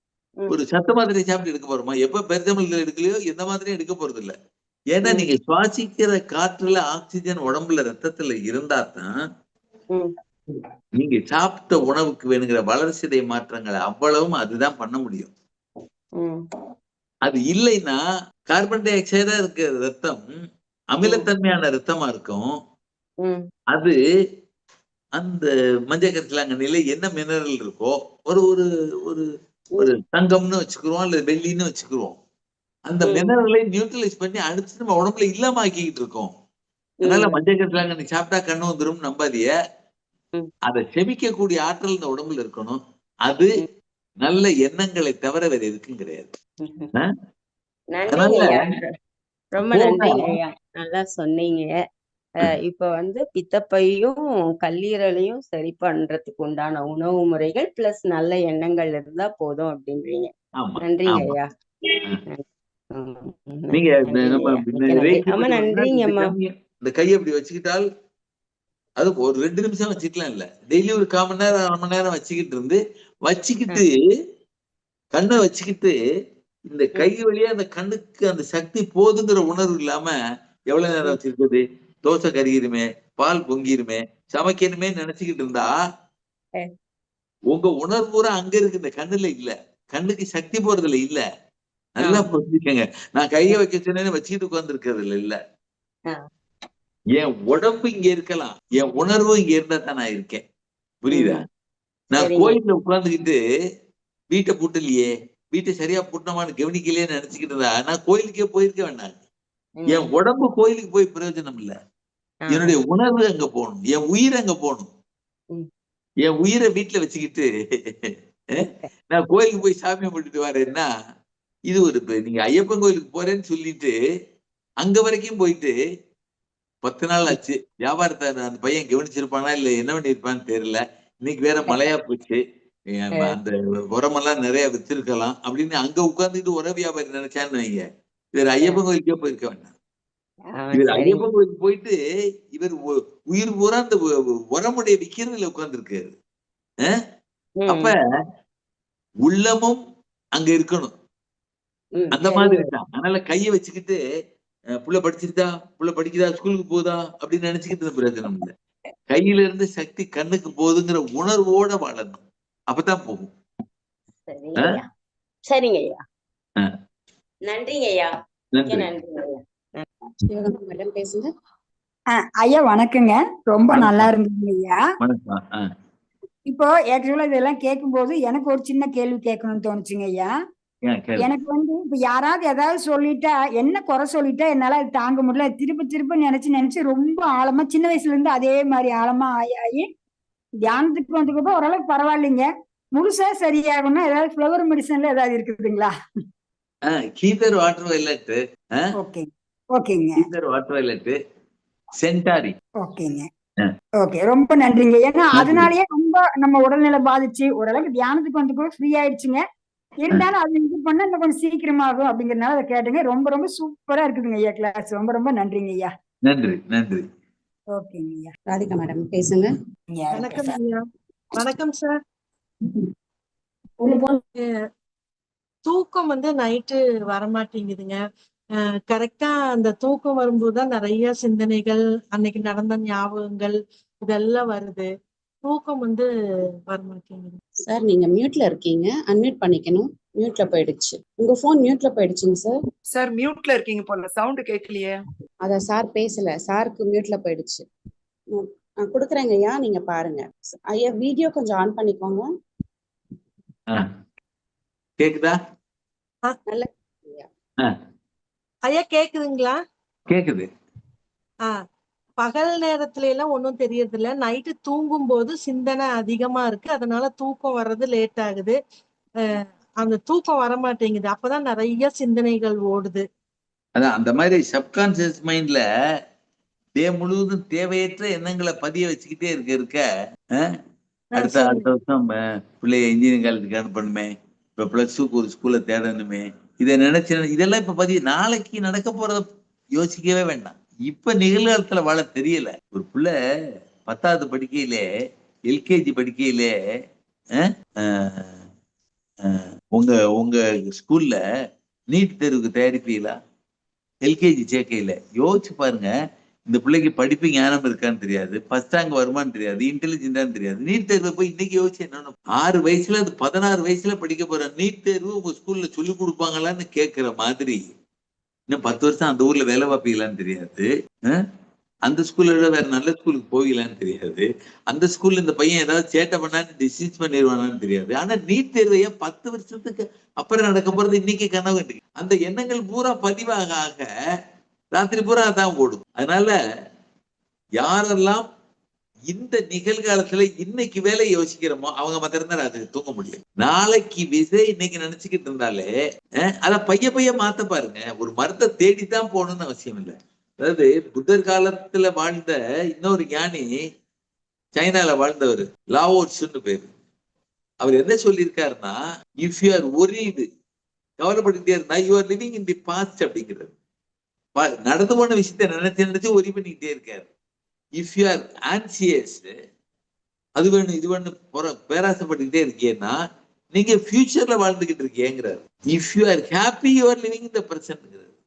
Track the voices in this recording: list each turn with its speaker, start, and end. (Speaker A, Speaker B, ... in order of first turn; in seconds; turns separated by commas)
Speaker A: 0.5-4.3, Speaker A: 4.9-9.1, Speaker A: 11.0-15.3, Speaker B: 16.2-16.4, Speaker A: 17.2-18.0, Speaker A: 18.5-20.2, Speaker A: 20.9-22.5, Speaker B: 23.2-23.5, Speaker A: 23.7-23.9, Speaker A: 25.2-32.2, Speaker A: 32.9-36.3, Speaker B: 33.0-33.3, Speaker B: 37.0-37.4, Speaker A: 37.0-39.5, Speaker A: 40.7-43.5, Speaker A: 44.2-46.3, Speaker B: 46.6-46.9, Speaker B: 47.9-48.8, Speaker A: 48.1-48.6, Speaker B: 49.5-51.7, Speaker A: 49.7-50.3, Speaker B: 52.4-60.3, Speaker A: 60.6-61.4, Speaker B: 60.8-66.3, Speaker A: 63.7-67.8, Speaker A: 69.0-73.9, Speaker A: 75.1-75.9, Speaker A: 76.7-80.1, Speaker A: 80.7-85.7, Speaker A: 87.5-91.2, Speaker A: 92.0-95.4, Speaker B: 92.0-92.3, Speaker A: 97.1-100.4, Speaker A: 101.0-101.4, Speaker B: 101.1-101.4, Speaker A: 102.1-103.4, Speaker B: 102.2-102.6, Speaker A: 104.3-109.2, Speaker B: 109.8-110.1, Speaker A: 109.9-111.7, Speaker B: 112.4-112.7, Speaker A: 112.5-114.9, Speaker A: 116.2-118.1, Speaker A: 119.1-120.9, Speaker A: 121.7-123.9, Speaker A: 124.8-125.7, Speaker A: 126.8-132.4, Speaker A: 132.9-139.7, Speaker B: 140.5-141.2, Speaker A: 140.7-141.9, Speaker A: 142.5-146.1, Speaker B: 147.6-147.9, Speaker A: 147.7-147.9, Speaker A: 149.2-149.8, Speaker A: 150.4-150.9, Speaker B: 151.9-152.7, Speaker A: 152.1-154.0, Speaker A: 154.8-158.5, Speaker A: 159.1-163.3, Speaker B: 164.3-164.9, Speaker B: 165.5-166.0, Speaker B: 167.5-168.1, Speaker A: 168.6-168.9, Speaker B: 168.7-169.9, Speaker C: 170.3-171.3, Speaker D: 172.2-174.8, Speaker A: 173.7-174.1, Speaker A: 175.0-175.7, Speaker D: 176.5-180.3, Speaker A: 180.8-181.3, Speaker D: 181.2-189.8, Speaker D: 190.7-195.9, Speaker A: 196.9-198.9, Speaker D: 199.0-200.2, Speaker A: 200.2-201.2, Speaker A: 202.0-202.6, Speaker D: 202.8-203.3, Speaker D: 204.0-209.4, Speaker A: 205.3-205.7, Speaker D: 210.0-215.9, Speaker A: 216.3-217.0, Speaker D: 217.8-218.3, Speaker C: 218.5-219.5, Speaker D: 219.9-220.6, Speaker E: 220.1-220.8, Speaker E: 221.3-221.9, Speaker D: 223.8-224.2, Speaker E: 225.7-228.0, Speaker E: 228.9-234.9, Speaker E: 235.4-236.1, Speaker E: 236.7-237.3, Speaker C: 237.7-242.6, Speaker F: 242.9-244.9, Speaker C: 245.4-247.7, Speaker C: 248.3-252.3, Speaker A: 255.0-255.4, Speaker C: 256.5-257.3, Speaker E: 258.7-259.6, Speaker A: 260.1-260.5, Speaker E: 262.2-268.6, Speaker E: 269.2-273.0, Speaker A: 273.8-275.6, Speaker A: 276.8-279.8, Speaker E: 281.1-281.6, Speaker A: 281.2-289.2, Speaker A: 289.8-293.1, Speaker A: 293.9-294.8, Speaker A: 295.5-296.5, Speaker A: 297.4-298.3, Speaker A: 299.2-301.2, Speaker A: 301.9-303.1, Speaker A: 304.1-305.9, Speaker A: 306.5-317.7, Speaker A: 318.5-321.2, Speaker A: 321.9-333.9, Speaker A: 334.8-336.3, Speaker A: 337.6-338.2, Speaker A: 339.1-345.7, Speaker A: 346.2-353.5, Speaker A: 354.5-356.7, Speaker A: 357.6-360.3, Speaker A: 361.0-363.5, Speaker A: 364.4-367.1, Speaker A: 367.8-369.3, Speaker A: 370.4-373.0, Speaker A: 373.5-378.1